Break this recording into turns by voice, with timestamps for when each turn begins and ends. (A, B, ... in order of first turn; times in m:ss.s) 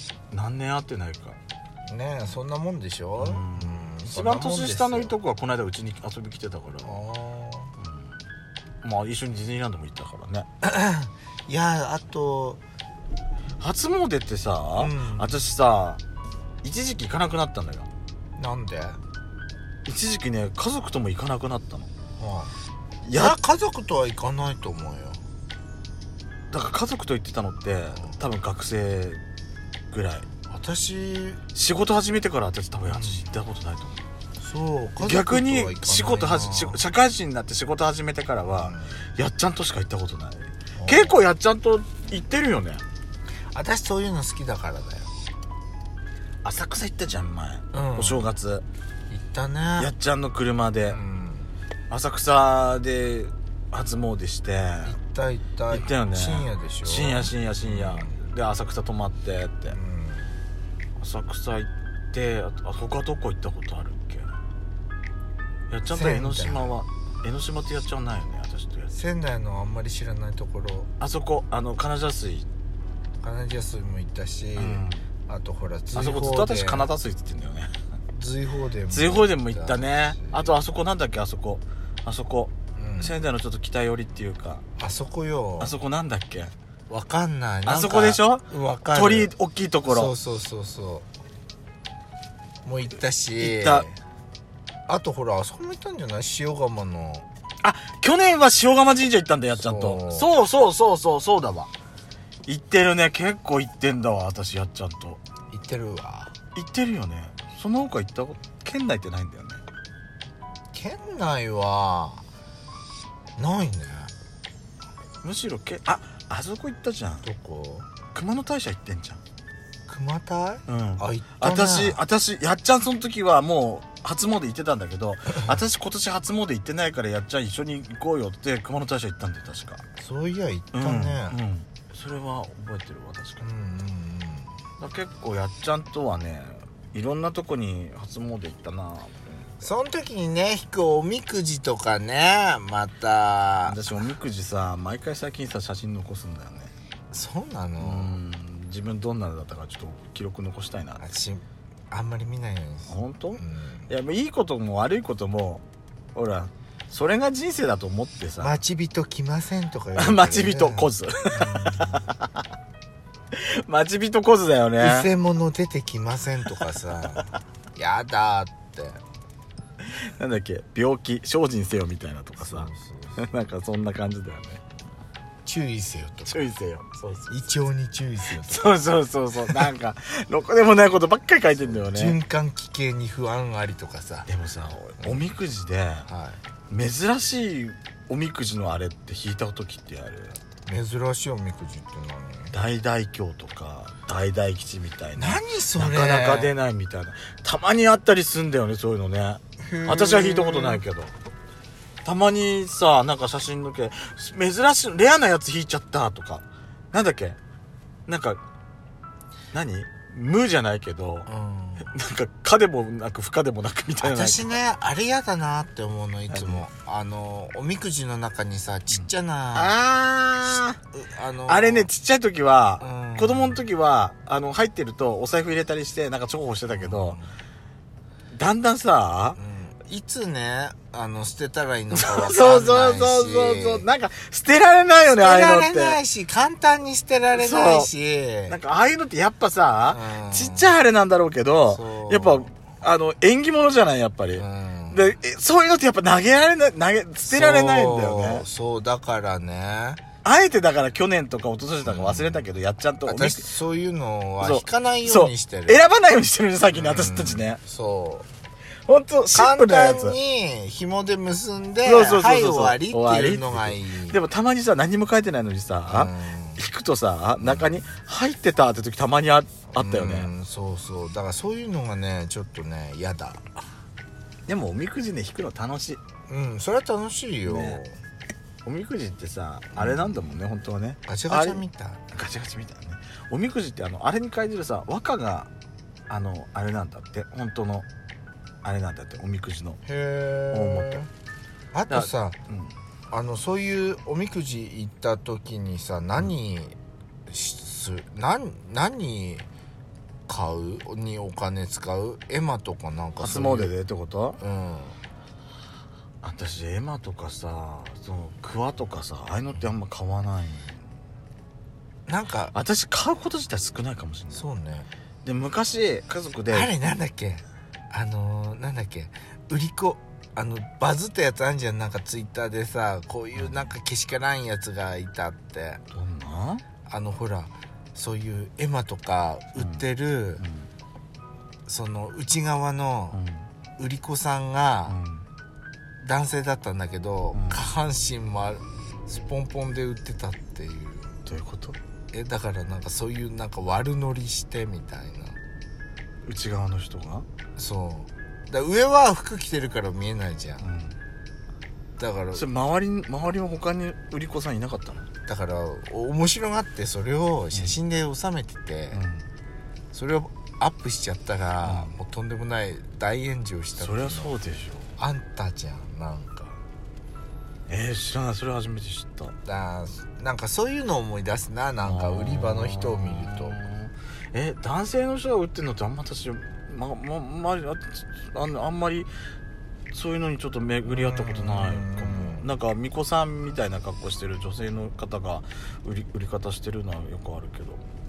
0:00.3-0:01.4 A
0:01.9-0:05.2 B
0:03.2-0:07.0 A
0:06.8-0:07.7 B
0:07.8-0:08.1 A
0:08.8-0:10.5 A
0:10.6-0:12.6 B
0:13.6-0:16.0 A
0:14.8-0:15.4 B
0:16.6-0:17.9 A
0:18.4-0:19.0 B
0:19.8-0:21.9 A
0:22.2-0:22.5 B
0:23.0-0:23.3 A
0:23.1-0:25.2 B
0:26.5-0:29.2 A
0:27.9-0:28.2 B
0:29.9-0:30.3 A
0:30.5-0:31.4 B
0:31.5-0:34.0 A
0:32.9-0:33.3 B
0:34.4-0:36.8 B
0:35.0-0:42.8 A
0:38.5-0:39.0 B
0:40.8-0:41.2 B
0:43.5-0:45.1 B
0:46.4-0:48.6 A
0:47.7-0:48.3 B
0:49.1-0:49.9 B
0:49.8-0:51.0 A
0:50.9-0:51.5 B
0:51.9-0:54.9 A
0:54.8-0:58.2 B
0:55.7-0:59.8 A
0:59.7-1:00.3 B
1:01.0-1:04.3 A
1:05.7-1:08.9 A
1:05.8-1:06.7 B
1:08.9-1:10.9 B
1:11.0-1:12.4 A
1:13.2-1:16.9 B
1:14.5-1:15.0 A
1:15.9-1:17.7 A
1:18.1-1:20.6 B
1:18.9-1:24.6 A
1:22.8-1:23.2 B
1:24.8-1:25.8 B
1:25.6-1:26.5 A
1:26.9-1:29.3 B
1:27.6-1:30.1 A
1:29.9-1:31.1 B
1:32.6-1:33.9 B
1:33.4-1:33.9 A
1:34.9-1:37.3 B
1:37.6-1:41.7 A
1:39.5-1:40.3 B
1:42.5-1:45.2 A
1:45.5-1:46.3 B
1:46.5-1:49.6 A
1:50.7-1:52.2 B
1:53.4-1:54.1 B
1:55.2-1:57.2 A
1:57.2-1:57.9 B
1:58.1-1:59.2 A
1:59.9-2:02.0 B
2:00.7-2:09.8 A
2:05.3-2:05.6 B
2:10.0-2:11.4 B
2:10.7-2:13.4 A
2:13.4-2:14.5 B
2:14.8-2:19.5 A
2:19.6-2:24.1 B
2:23.6-2:26.7 A
2:27.1-2:28.2 B
2:27.8-2:31.1 A
2:31.0-2:33.9 B
2:32.9-2:35.6 A
2:36.1-2:38.6 A
2:38.4-2:42.1 B
2:40.0-2:42.4 A
2:43.3-2:45.1 A
2:44.8-2:49.0 B
2:49.8-2:54.6 A
2:52.4-2:53.3 B
2:55.4-2:56.5 B
2:56.3-2:57.4 A
2:57.3-2:58.8 B
2:58.3-3:02.2 A
3:01.6-3:04.3 B
3:04.2-3:06.1 A
3:05.0-3:05.3 B
3:06.0-3:06.4 B
3:06.7-3:10.4 A
3:10.6-3:12.5 B
3:12.5-3:21.1 A
3:15.2-3:16.5 B
3:19.6-3:20.8 B
3:22.0-3:27.4 A
3:28.1-3:28.4 A
3:29.5-3:31.3 A
3:31.2-3:31.9 B
3:31.8-3:34.6 A
3:34.0-3:39.8 B
3:36.3-3:36.6 A
3:38.9-3:40.8 A
3:40.5-3:41.9 B
3:41.5-3:47.2 A
3:42.8-3:43.6 B
3:46.7-3:47.3 B
3:48.3-3:49.4 A
3:49.4-3:53.8 B
3:51.9-3:56.0 A
3:55.1-3:58.6 B
3:57.3-3:57.9 A
3:58.5-4:08.4 A
3:59.9-4:00.8 B
4:01.7-4:02.5 B
4:04.3-4:05.2 B
4:07.3-4:10.0 B
4:10.2-4:13.5 A
4:11.8-4:12.4 B
4:13.0-4:15.8 B
4:14.4-4:17.6 A
4:16.7-4:18.3 B
4:18.9-4:20.2 A
4:19.3-4:24.2 B
4:21.8-4:30.3 A
4:25.9-4:26.6 B
4:27.4-4:27.8 B
4:29.7-4:33.5 B
4:34.5-4:36.0 A
4:36.3-4:37.9 B
4:37.4-4:37.8 A
4:38.6-4:45.5 A
4:39.7-4:40.2 B
4:41.1-4:42.0 B
4:46.1-4:47.8 A
4:48.6-4:49.8 A
4:49.8-4:51.1 B
4:50.5-4:51.0 A
4:51.7-4:52.4 B
4:51.9-4:52.7 A
4:53.1-4:56.8 B
4:57.3-4:59.5 B
5:00.3-5:03.7 B
5:03.2-5:04.4 A
5:04.4-5:05.0 B
5:06.2-5:10.8 A
5:12.1-5:12.5 B
5:12.5-5:14.4 A
5:14.3-5:14.9 B
5:15.2-5:16.7 A
5:16.5-5:25.8 B
5:23.3-5:23.7 A
5:25.9-5:26.6 A
5:26.9-5:30.4 B
5:29.6-5:29.8 A
5:30.4-5:30.7 A
5:31.6-5:33.2 B
5:33.1-5:33.5 A
5:33.8-5:35.0 B
5:34.9-5:35.2 A
5:36.0-5:41.2 B
5:37.3-5:37.6 A
5:41.2-5:41.8 A
5:42.1-5:45.4 B
5:46.2-5:47.2 A
5:47.6-5:50.6 B
5:50.6-5:51.0 A
5:52.0-5:52.5 B
5:52.3-5:55.1 A
5:55.3-5:59.0 B
5:57.5-5:57.8 A
5:58.9-5:59.2 A
5:59.9-6:04.3 B
6:01.6-6:01.9 A
6:03.7-6:04.9 A
6:05.0-6:06.6 B
6:07.7-6:09.3 A
6:09.4-6:13.6 B
6:11.8-6:19.1 A
6:19.9-6:27.8 A
6:20.8-6:22.5 B